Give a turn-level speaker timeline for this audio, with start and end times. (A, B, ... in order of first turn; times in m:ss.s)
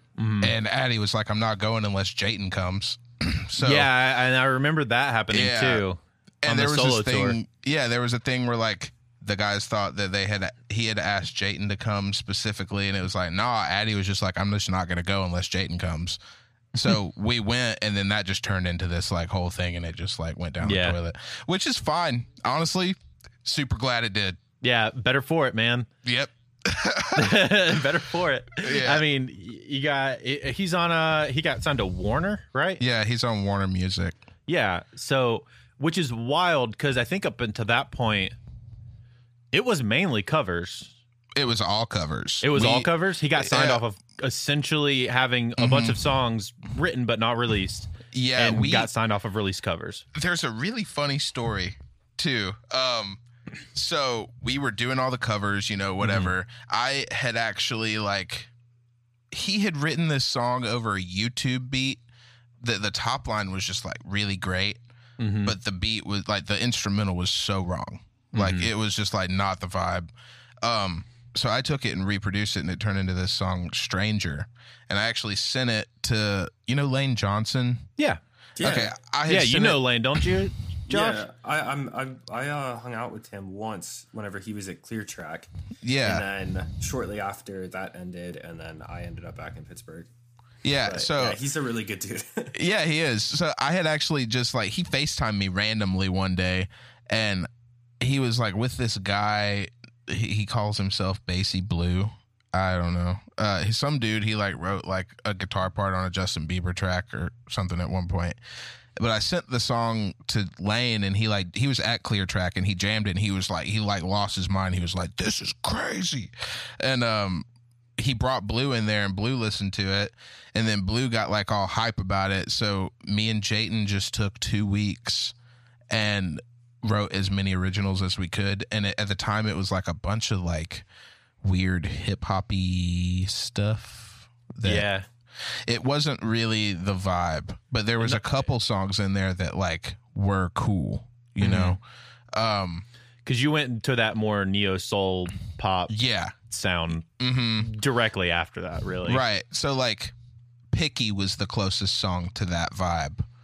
0:00.2-0:00.5 A
0:00.4-0:03.9 B
0:03.6-0:07.4 A
0:05.3-0:05.8 B
0:06.4-0:16.2 B
0:16.7-0:24.4 B
0:20.6-0:21.0 A
0:24.6-0:25.9 A
0:26.0-0:27.4 B
0:27.1-0:32.8 A
0:28.6-0:29.0 B
0:32.8-0:34.2 B
0:34.5-0:38.4 A
0:39.5-0:40.9 A
0:41.3-0:43.8 B
0:42.4-0:50.0 A
0:45.6-0:46.0 B
0:48.1-0:48.9 B
0:50.1-0:53.2 B
0:53.7-0:58.5 B
0:56.0-0:56.3 A
0:59.3-1:02.0 B
1:02.6-1:04.8 B
1:05.2-1:05.6 A
1:05.4-1:10.1 B
1:08.3-1:08.7 A
1:10.6-1:17.9 B
1:18.6-1:18.9 C
1:18.6-1:20.2 B
1:19.3-1:21.2 A
1:20.9-1:25.5 C
1:25.8-1:26.2 B
1:26.0-1:30.1 C
1:30.6-1:31.4 B
1:30.8-1:32.5 C
1:32.5-1:37.5 B
1:38.0-1:48.4 B
1:49.0-2:05.3 B
2:05.9-2:10.8 B
2:11.4-2:14.9 B
2:14.6-2:15.0 A
2:15.7-2:21.8 B
2:18.0-2:18.3 A
2:21.4-2:21.8 A
2:22.3-2:22.8 B
2:23.2-2:25.9 A
2:25.9-2:26.4 B
2:26.5-2:27.0 A
2:27.2-2:27.7 B
2:27.6-2:29.2 A
2:29.0-2:30.1 B
2:30.7-2:33.2 B